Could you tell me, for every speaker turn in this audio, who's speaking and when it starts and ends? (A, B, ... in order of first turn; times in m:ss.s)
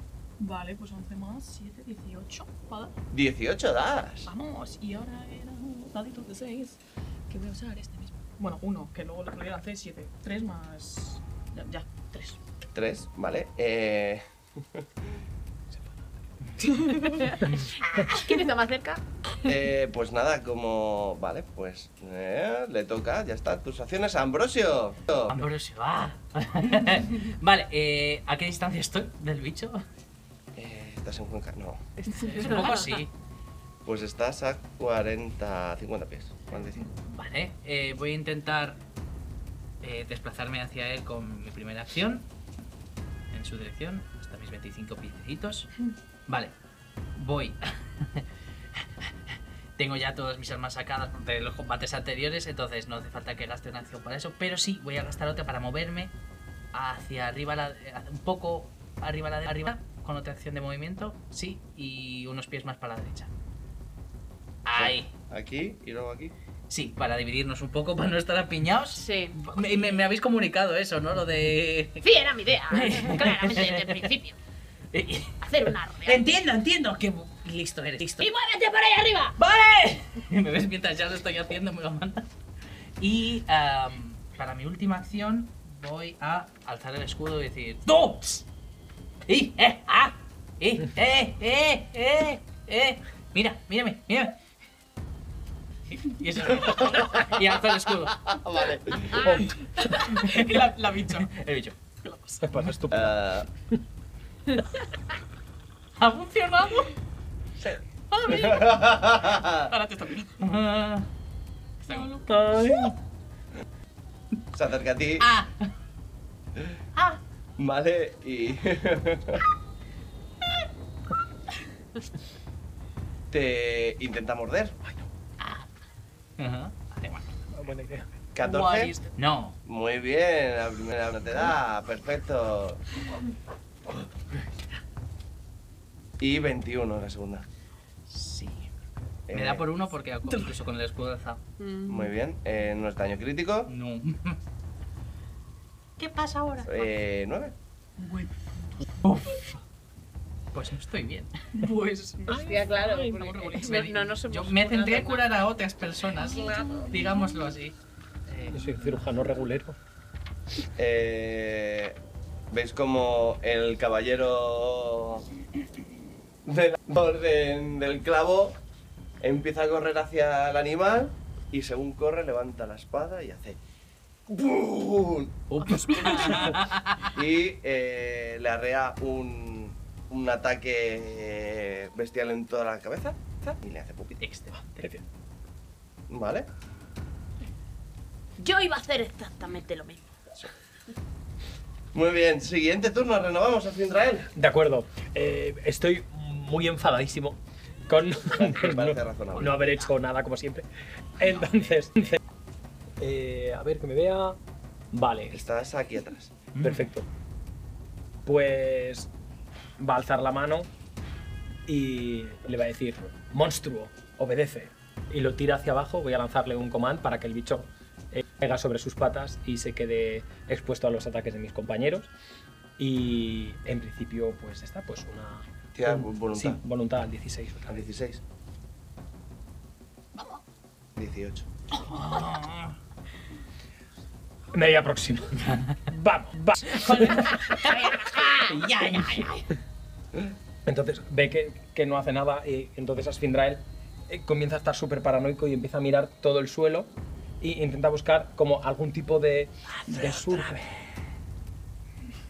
0:00.4-0:02.9 A
0:03.1-0:04.3 B
0:04.2-0:12.4 A
0:12.7-0:15.1 B
0:16.6-0:17.2 A
0:17.2-0:19.5 C
0:19.4-0:25.4 B
0:25.3-0:29.8 D
0:30.5-0:31.8 B
0:32.0-0:32.8 A
0:32.2-0:33.1 D
0:32.4-0:33.0 C
0:33.8-0:36.9 B
0:36.8-0:38.8 D
0:39.8-0:42.3 D
0:43.3-0:45.7 D
0:46.3-0:46.5 D
0:47.2-0:48.2 D
0:49.8-0:56.1 D
0:56.7-1:03.3 D
1:04.6-1:05.1 D
1:04.7-1:06.3 B
1:06.7-1:12.0 D
1:08.9-1:10.0 C
1:12.0-1:14.4 C
1:12.7-1:14.1 D
1:14.9-1:18.3 D
1:15.4-1:16.3 C
1:18.2-1:19.4 C
1:19.4-1:22.3 D
1:23.0-1:28.4 D
1:29.3-1:34.4 D
1:35.9-1:38.4 D
1:36.7-1:37.3 B
1:38.2-1:39.4 B
1:39.2-1:39.5 E
1:39.5-1:41.3 A
1:40.0-1:41.8 D
1:42.0-1:42.7 A
1:42.4-1:43.8 E
1:42.9-1:43.5 B
1:46.0-1:46.9 D
1:48.2-1:49.7 B
1:48.3-1:48.8 A
1:49.7-1:50.4 A
1:50.4-1:51.1 D
1:51.8-1:52.8 A
1:52.3-1:52.9 E
1:54.5-1:55.3 B
1:55.2-1:55.7 D
1:57.0-1:57.2 D
1:57.6-1:59.4 B
2:03.3-2:04.8 B
2:06.4-2:07.4 D
2:07.5-2:08.1 E
2:08.3-2:08.9 B
2:08.4-2:09.1 A
2:09.2-2:09.6 D
2:09.6-2:12.8 B
2:16.2-2:17.5 B
2:18.1-2:18.7 D
2:19.3-2:19.7 B
2:19.3-2:21.4 D
2:20.3-2:20.5 A
2:21.6-2:22.1 C
2:21.8-2:23.7 B
2:23.7-2:24.4 D
2:26.0-2:26.9 D
2:26.6-2:27.6 B
2:28.0-2:28.8 A
2:29.0-2:29.6 D
2:30.5-2:31.3 D
2:31.5-2:34.0 A
2:32.3-2:35.3 C
2:32.3-2:33.1 E
2:33.6-2:37.8 D
2:36.2-2:37.3 A
2:36.3-2:36.8 C
2:38.3-2:38.6 D
2:38.5-2:39.8 E
2:40.8-2:42.0 B
2:42.5-2:45.2 B
2:46.4-2:48.6 B
2:49.2-2:53.6 B
2:54.3-3:04.2 B
2:55.5-2:57.1 D
3:04.2-3:04.9 D
3:06.1-3:06.5 B
3:08.4-3:10.1 C
3:11.9-3:14.3 B
3:14.3-3:20.6 E
3:18.2-3:19.7 B
3:21.2-3:22.2 E
3:21.3-3:22.1 D
3:23.0-3:24.4 E
3:24.9-3:25.4 E
3:25.3-3:26.3 B
3:26.5-3:26.9 D
3:26.6-3:27.1 E
3:28.2-3:29.1 E
3:29.8-3:30.7 E
3:31.7-3:42.1 E
3:42.8-3:47.8 E
3:45.7-3:46.6 B
3:47.7-3:48.2 B
3:51.0-3:51.5 B
3:51.8-3:52.7 D
3:54.5-3:57.4 E
3:56.7-3:59.4 D
3:57.5-3:59.3 C
4:00.6-4:10.6 E
4:09.9-4:10.7 D